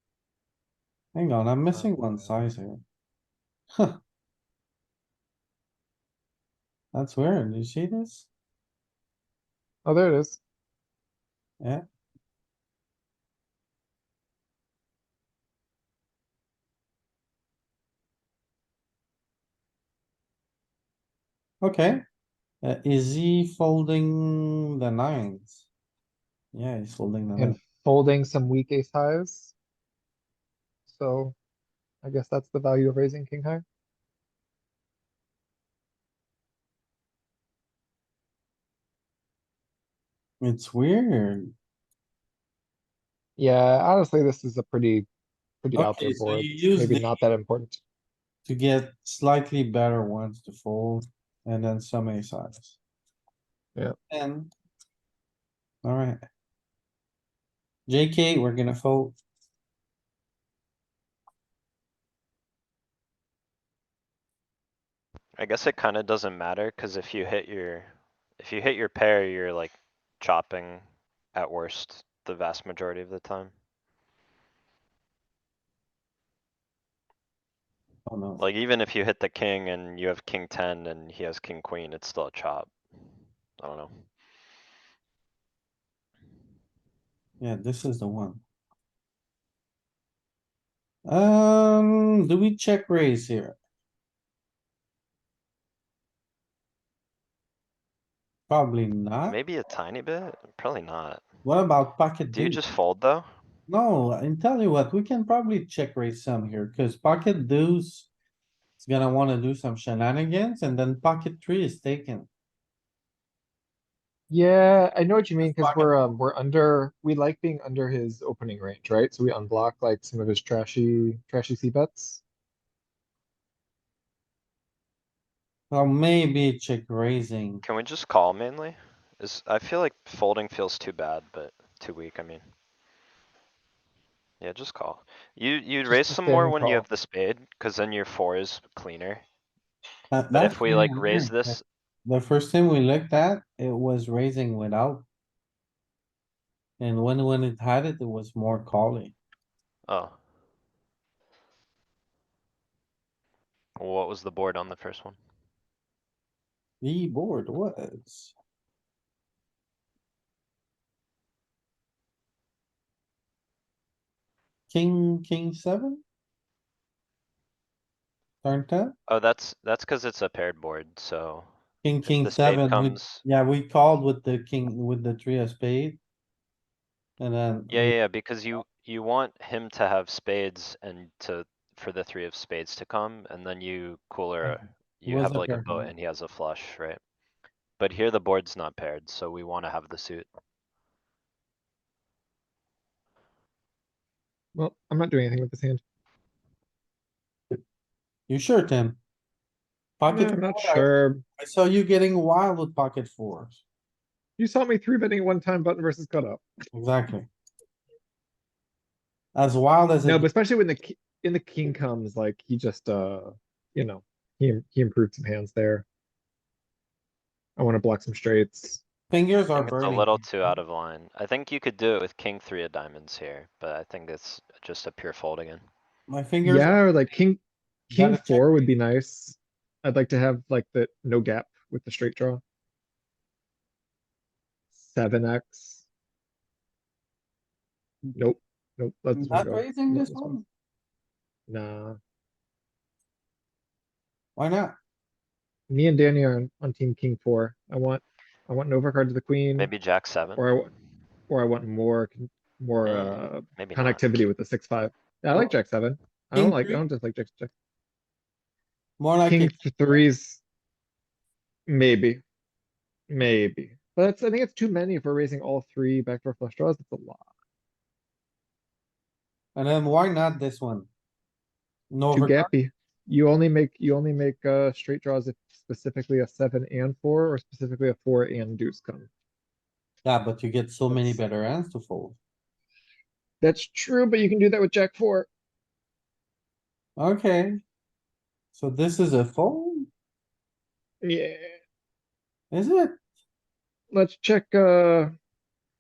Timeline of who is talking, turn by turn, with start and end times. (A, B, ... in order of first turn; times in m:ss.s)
0:01.1-0:02.8 A
0:01.7-0:02.3 B
0:06.9-0:08.3 A
0:09.8-0:10.4 B
0:21.6-0:22.0 A
0:22.6-0:25.7 A
0:26.5-0:27.6 A
0:27.4-0:29.6 B
0:30.9-0:31.4 B
0:32.0-0:33.6 B
0:40.4-0:41.5 A
0:43.4-0:45.1 B
0:45.6-0:47.8 B
0:45.8-0:47.1 A
0:48.5-0:52.8 A
0:54.1-0:54.5 A
0:55.8-0:56.2 A
0:57.9-0:59.2 A
1:05.4-1:13.5 C
1:18.1-1:18.4 A
1:18.4-1:22.7 C
1:23.6-1:23.9 C
1:27.4-1:28.4 A
1:31.1-1:33.6 A
1:38.5-1:39.4 A
1:39.2-1:41.3 C
1:41.4-1:42.6 A
1:42.3-1:43.3 C
1:43.7-1:48.1 A
1:48.8-1:52.3 A
1:54.3-2:02.2 B
1:55.4-1:55.9 A
2:05.7-2:07.6 A
2:07.6-2:12.4 C
2:14.4-2:19.2 C
2:15.9-2:16.8 B
2:15.9-2:16.8 A
2:20.1-2:25.1 A
2:20.3-2:21.6 C
2:26.8-2:29.2 A
2:29.9-2:30.2 C
2:33.8-2:35.2 C
2:36.8-2:38.4 A
2:44.7-2:46.0 A
2:48.4-2:49.0 A
2:49.1-2:51.5 C
2:51.8-2:56.0 A
2:52.0-2:53.2 C
2:57.2-2:58.0 A
2:57.7-3:07.0 C
3:04.4-3:05.9 A
3:07.8-3:10.3 C
3:14.6-3:15.8 B
3:18.3-3:19.0 A
3:20.0-3:20.9 A
3:20.1-3:21.2 B
3:21.4-3:23.6 A
3:24.4-3:26.4 B
3:26.7-3:27.3 A
3:29.4-3:30.3 A
3:30.0-3:35.8 B
3:37.6-3:38.8 B
3:39.1-3:40.1 A
3:39.5-3:45.6 C
3:46.1-3:46.8 A
3:46.4-3:52.4 B
3:47.9-3:48.5 A
3:54.8-3:55.8 B
3:58.2-4:00.4 B
3:59.1-4:00.4 A
4:01.5-4:02.0 B
4:04.4-4:04.8 A
4:05.7-4:09.7 B
4:09.6-4:10.4 C
4:10.4-4:10.7 B
4:11.3-4:17.5 B
4:12.8-4:14.2 C
4:16.4-4:16.8 A
4:19.0-4:19.6 A
4:19.2-4:20.4 B
4:21.7-4:22.2 B
4:23.1-4:27.3 B
4:29.6-4:30.9 A
4:31.9-4:32.5 A
4:32.1-4:39.1 B
4:40.0-4:42.2 A
4:40.9-4:41.2 B
4:43.4-4:45.3 B
4:47.0-4:47.6 A
4:48.5-4:49.9 A
4:51.0-4:51.6 B
4:52.5-4:53.0 A
4:53.9-4:55.2 B